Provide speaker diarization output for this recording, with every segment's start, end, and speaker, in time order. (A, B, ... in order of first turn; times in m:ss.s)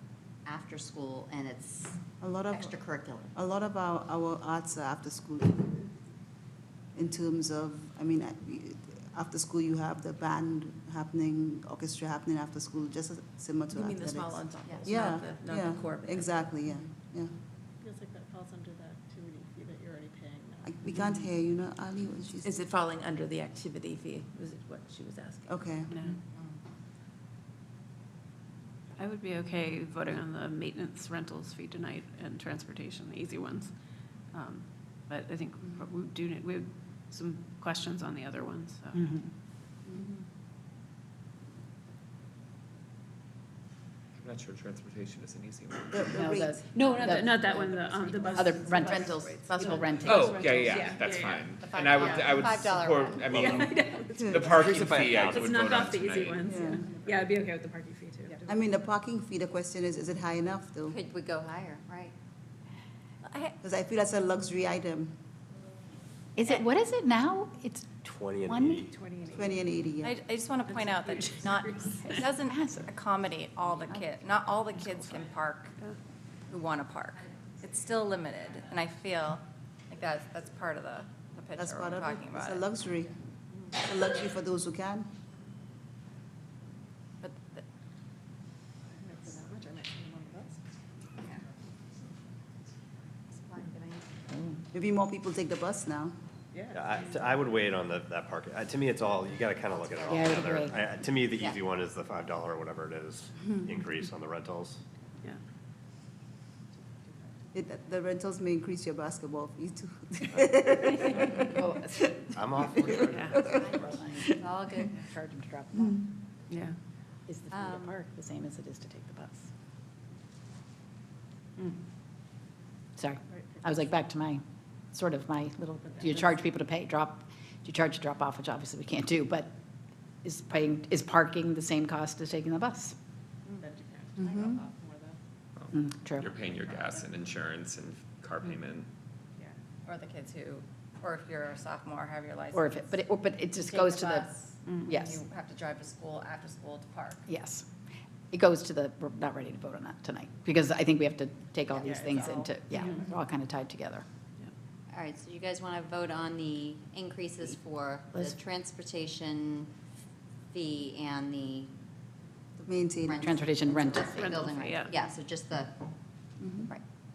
0:00.4-0:02.0 A
0:02.2-0:02.7 B
0:02.5-0:03.3 A
0:03.3-0:05.9 B
0:06.9-0:17.3 B
0:13.7-0:16.5 C
0:14.6-0:15.0 A
0:17.8-0:20.8 D
0:20.6-0:22.5 B
0:22.4-0:25.7 C
0:25.5-0:25.9 B
0:25.9-0:26.2 E
0:29.0-0:33.8 E
0:34.3-0:39.0 E
0:38.9-0:39.3 F
0:44.2-0:46.2 G
0:45.9-0:47.1 B
0:46.2-0:50.7 F
0:46.7-0:51.4 E
0:48.8-0:49.9 C
0:50.0-0:56.5 G
0:51.1-0:51.5 D
0:51.6-0:53.6 A
0:53.2-0:53.6 H
0:53.4-0:54.6 E
0:54.1-0:54.5 B
0:54.5-0:55.9 H
0:55.3-0:58.4 E
0:56.4-0:56.8 B
0:56.7-0:57.5 D
0:58.4-1:01.0 B
1:00.9-1:02.1 A
1:03.2-1:03.5 I
1:03.6-1:05.2 B
1:06.4-1:08.9 F
1:08.0-1:09.0 H
1:08.9-1:09.7 D
1:09.3-1:10.2 B
1:10.0-1:15.8 I
1:10.7-1:11.9 D
1:12.1-1:12.9 F
1:16.5-1:22.7 I
1:21.6-1:23.1 B
1:23.7-1:25.1 B
1:27.2-1:27.6 I
1:28.8-1:30.6 D
1:33.3-1:34.2 A
1:34.7-1:36.2 B
1:36.5-1:36.9 D
1:36.7-1:44.8 H
1:39.7-1:40.8 A
1:40.1-1:40.8 F
1:47.5-1:54.3 B
1:51.5-1:52.3 F
1:52.3-1:53.5 H
1:53.1-1:53.4 E
1:53.4-1:55.0 A
1:53.7-1:56.0 F
1:56.5-1:56.8 E
1:57.3-1:59.5 F
1:57.5-1:57.9 A
2:03.0-2:09.5 F
2:03.3-2:03.8 D
2:05.9-2:06.3 D
2:10.2-2:12.9 F
2:13.5-2:15.2 D
2:15.6-2:18.9 G
2:15.7-2:16.3 F
2:19.8-2:23.0 I
2:22.5-2:24.3 F
2:23.7-2:27.2 I
2:24.6-2:24.9 E
2:24.8-2:25.2 F
2:27.3-2:27.6 F
2:28.3-2:34.0 F
2:31.7-2:32.5 I
2:32.7-2:33.0 E
2:34.9-2:39.7 A
2:40.5-2:41.7 A
2:42.6-2:43.2 B
2:43.0-2:45.8 A
2:43.2-2:44.3 F
2:44.1-2:44.9 E
2:46.4-2:46.7 B